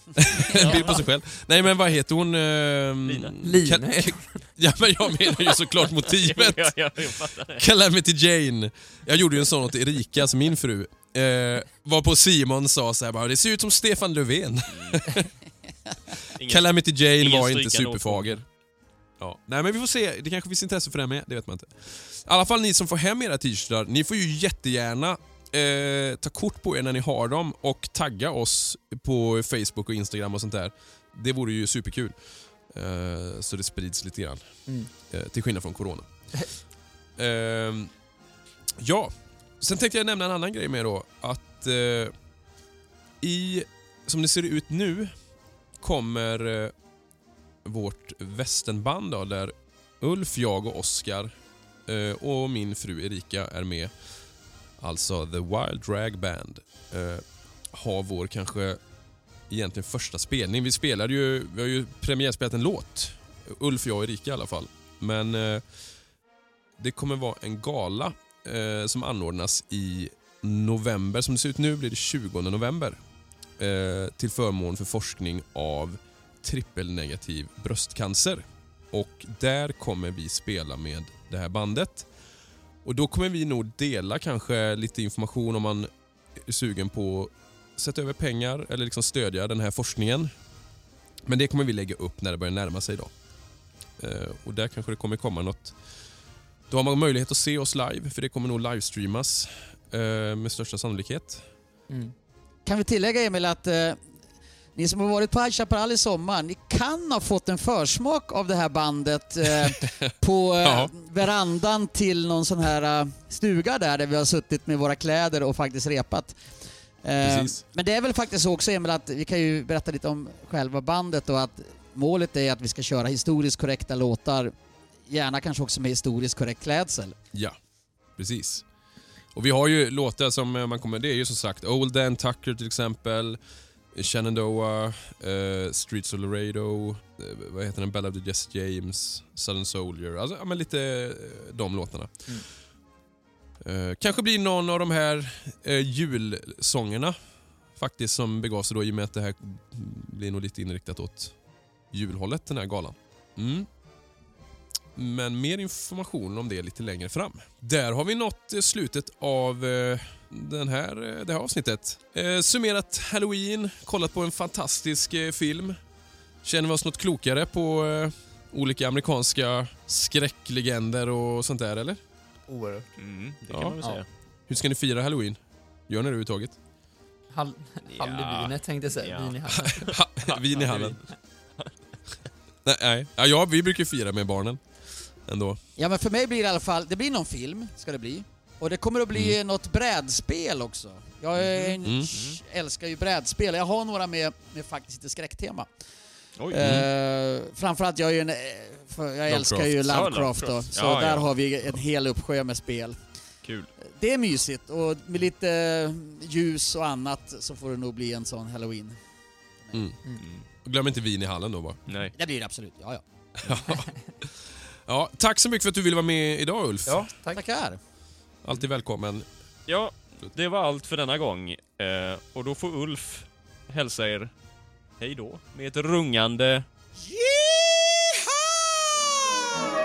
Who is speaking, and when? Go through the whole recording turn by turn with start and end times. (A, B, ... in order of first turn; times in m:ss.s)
0:00.2-0:06.7 A
0:00.5-0:01.0 B
0:00.5-0:01.0 C
0:03.1-0:03.4 C
0:03.4-0:04.5 B
0:05.2-0:07.7 C
0:07.5-0:15.3 A
0:14.7-0:15.0 C
0:16.4-0:18.4 C
0:16.4-0:18.4 A
0:19.2-0:36.1 A
0:37.2-0:37.9 A
0:38.8-0:42.1 A
0:43.2-0:45.1 A
0:45.8-0:46.7 A
0:47.6-0:51.3 A
0:51.9-0:53.9 A
0:54.8-0:58.8 A
0:59.5-1:05.6 A
1:06.8-1:13.0 A
1:13.6-1:22.1 A
1:22.8-1:30.3 A
1:31.3-1:33.1 A
1:34.0-1:35.8 A
1:36.7-1:41.5 A
1:42.7-1:44.0 D
1:44.8-1:56.4 D
1:49.5-1:50.9 A
1:57.0-2:04.5 D
1:57.2-1:57.6 A
2:05.1-2:07.2 D
2:08.2-2:08.6 A
2:09.3-2:13.4 A
2:13.9-2:22.3 A
2:23.6-2:27.2 A
2:27.8-2:31.3 A
2:31.9-2:33.7 A
2:35.0-2:45.8 A
2:46.4-2:52.0 A
2:52.5-2:52.9 B
2:53.0-2:54.0 C
2:53.5-2:53.8 A
2:54.5-2:56.6 A
2:57.3-2:59.9 B
2:57.9-3:01.0 C
2:59.6-3:01.0 A
3:00.6-3:01.0 B
3:02.6-3:05.6 A
3:05.8-3:15.7 D
3:11.4-3:12.4 C
3:11.8-3:12.1 A
3:16.4-3:16.8 C
3:16.5-3:23.0 D
3:16.5-3:16.9 A
3:19.3-3:19.8 A
3:19.8-3:21.3 C
3:23.4-3:23.7 C
3:23.8-3:29.0 D
3:29.7-3:30.0 A
3:30.2-3:30.5 C
3:30.6-3:31.8 A
3:31.9-3:32.1 C
3:32.2-3:33.0 D
3:33.4-3:34.4 A
3:34.9-3:37.1 A
3:36.9-3:37.4 B
3:37.3-3:37.8 D
3:38.4-3:39.3 A
3:39.7-3:44.3 C
3:45.0-3:46.6 C
3:47.0-3:49.3 D